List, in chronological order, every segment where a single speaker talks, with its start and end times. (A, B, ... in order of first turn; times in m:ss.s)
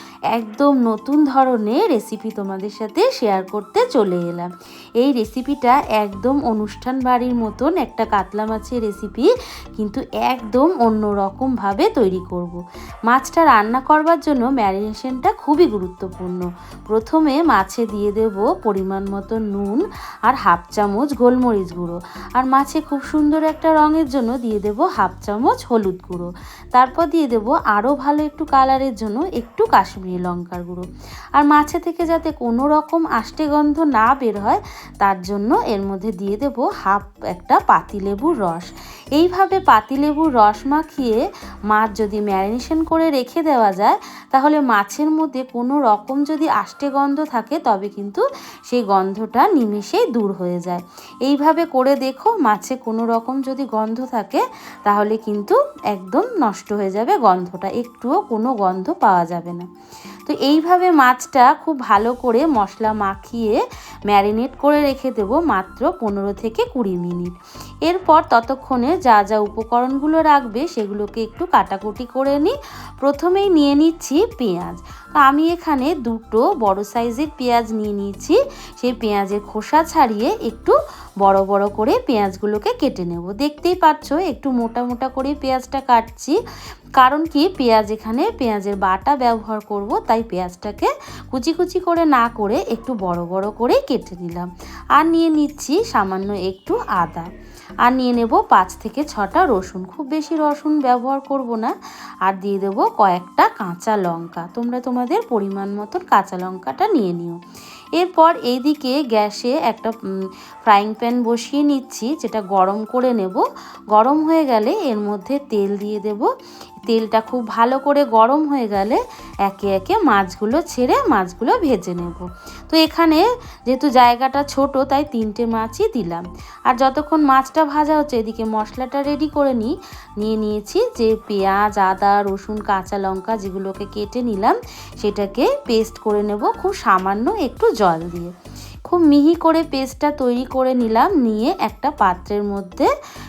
0:00.3-0:30.8 A
0:31.4-0:59.7 A
1:00.2-1:07.3 A
1:07.9-1:26.4 A
1:27.0-1:37.3 A
1:37.8-1:41.7 A
1:42.2-1:47.4 A
1:48.0-1:56.3 A
1:56.9-2:18.3 A
2:18.8-2:22.9 A